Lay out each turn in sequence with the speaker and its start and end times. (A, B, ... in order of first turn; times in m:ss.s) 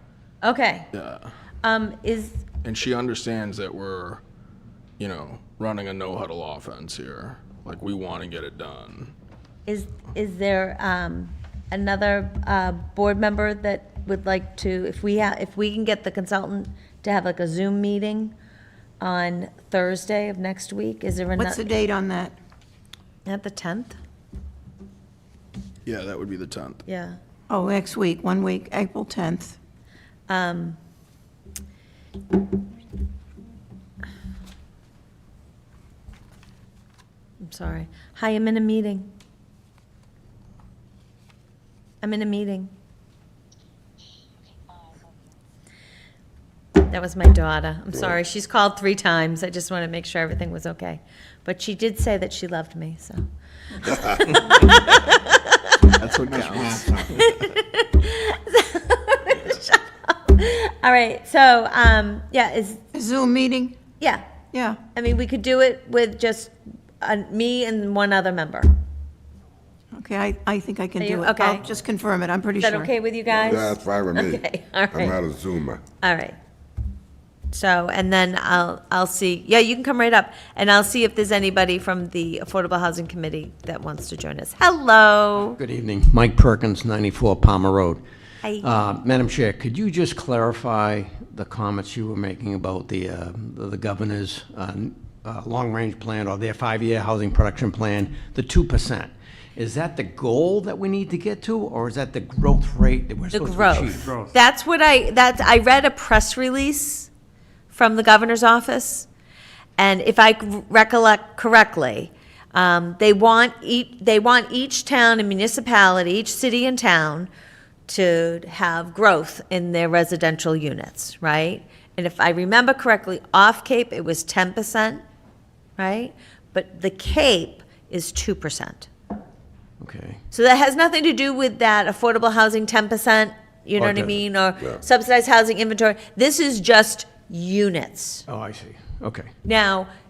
0:00.4-0:00.9 A
0:00.9-0:01.2 B
0:01.6-0:02.4 A
0:02.6-0:04.2 B
0:05.0-0:09.1 B
0:09.7-0:18.3 A
0:19.0-0:21.6 A
0:21.4-0:22.3 C
0:23.2-0:24.0 A
0:25.8-0:26.8 B
0:26.8-0:27.2 A
0:27.5-0:29.6 C
0:30.3-0:30.8 A
0:37.4-0:39.1 A
0:42.0-0:42.7 A
0:46.8-0:53.2 A
0:53.8-0:55.9 A
0:56.0-0:57.0 B
0:57.0-1:02.8 A
1:02.9-1:03.8 C
1:04.5-1:04.8 C
1:04.9-1:08.7 A
1:09.9-1:12.9 C
1:11.0-1:11.6 A
1:12.6-1:15.2 A
1:13.3-1:15.8 D
1:16.0-1:16.4 A
1:17.5-1:25.6 A
1:25.5-1:28.0 E
1:28.4-1:28.7 A
1:28.6-1:44.2 E
1:43.3-1:47.1 A
1:47.7-1:49.1 A
1:49.8-1:57.3 A
1:57.9-2:05.0 A
2:05.8-2:08.9 A
2:09.8-2:10.2 E
2:10.3-2:18.2 A
2:13.8-2:14.2 E
2:18.3-2:19.3 E
2:19.4-2:19.9 A